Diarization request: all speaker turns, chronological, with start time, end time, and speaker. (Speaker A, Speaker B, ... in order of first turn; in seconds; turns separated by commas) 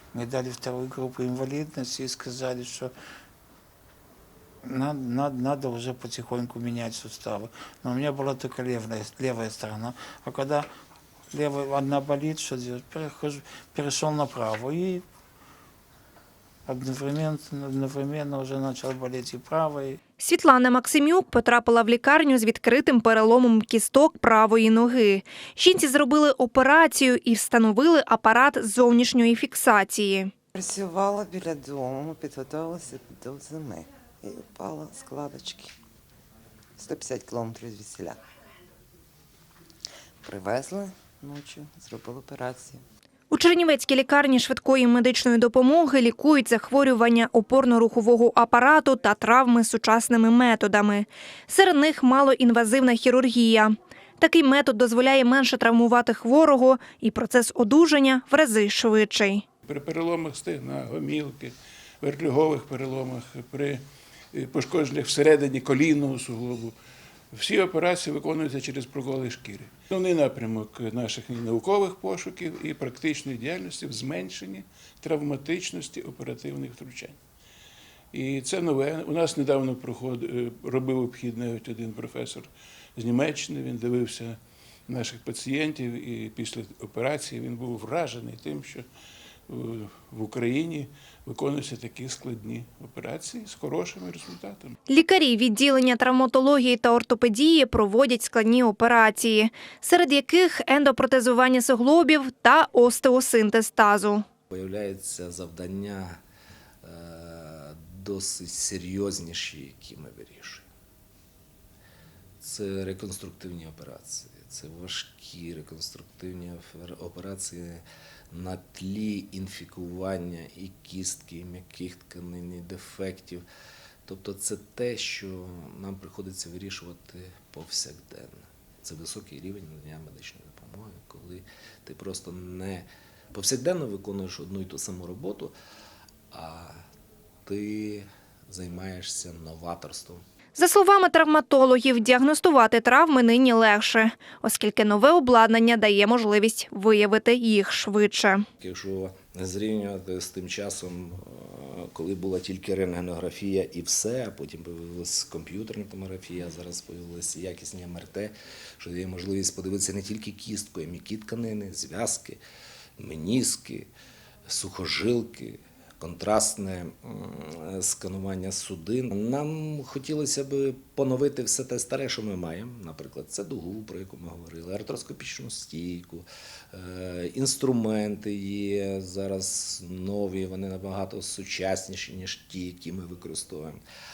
Speaker A: 0.1-2.9, Speaker A: 4.6-10.7, Speaker A: 11.3-15.0, Speaker A: 16.7-20.0, Speaker B: 20.2-30.3, Speaker C: 30.6-35.8, Speaker C: 36.8-38.2, Speaker C: 40.2-42.8, Speaker B: 43.3-59.4, Speaker D: 59.6-66.8, Speaker D: 67.3-77.2, Speaker D: 78.1-88.9, Speaker D: 89.5-94.8, Speaker B: 94.9-104.3, Speaker E: 104.5-106.2, Speaker E: 106.8-110.7, Speaker E: 112.4-123.5, Speaker E: 124.0-135.6, Speaker E: 136.3-136.8, Speaker E: 137.4-140.2, Speaker B: 140.6-148.5, Speaker E: 148.6-162.4, Speaker E: 163.0-163.9, Speaker E: 164.5-183.8